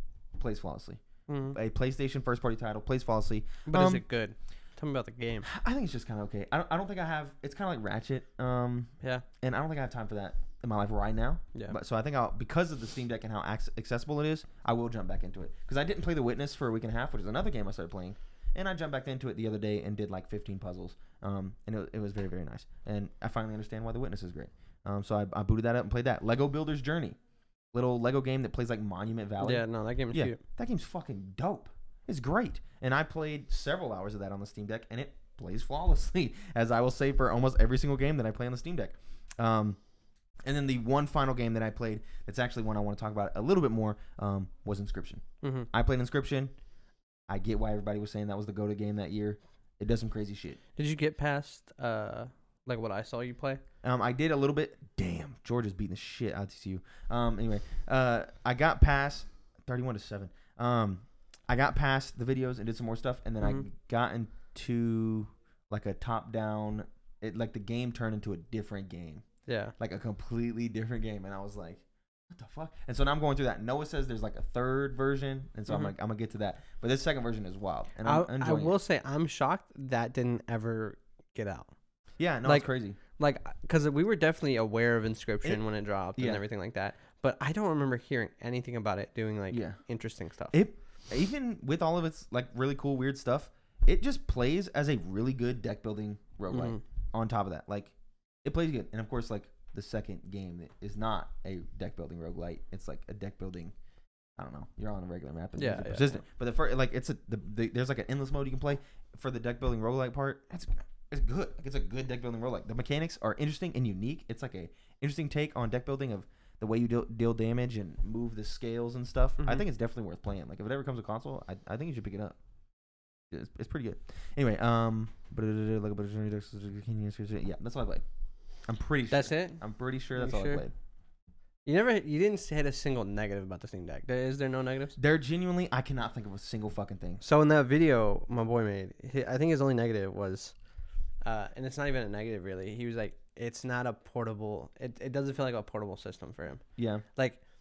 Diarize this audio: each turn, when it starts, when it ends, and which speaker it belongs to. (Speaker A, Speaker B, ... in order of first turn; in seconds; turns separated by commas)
Speaker A: 0.4-4.0, Speaker B: 1.3-1.6, Speaker B: 3.7-5.5, Speaker A: 5.4-27.1, Speaker A: 27.7-39.8, Speaker B: 29.4-30.4, Speaker A: 40.4-46.5, Speaker B: 45.4-45.7, Speaker A: 47.3-50.6, Speaker B: 50.8-53.6, Speaker A: 53.8-69.2, Speaker B: 69.5-69.7, Speaker A: 69.8-78.8, Speaker B: 75.7-75.9, Speaker B: 78.0-81.7, Speaker A: 82.2-83.0, Speaker B: 82.4-90.6, Speaker A: 86.2-86.4, Speaker A: 89.5-89.8, Speaker A: 90.5-103.7, Speaker B: 96.5-96.8, Speaker A: 104.4-122.4, Speaker B: 105.6-106.2, Speaker A: 123.3-128.0, Speaker A: 128.7-130.7, Speaker B: 129.1-129.6, Speaker B: 130.1-130.6, Speaker B: 131.7-135.0, Speaker A: 135.0-137.2, Speaker B: 137.2-140.5, Speaker B: 141.2-146.6, Speaker A: 146.8-147.0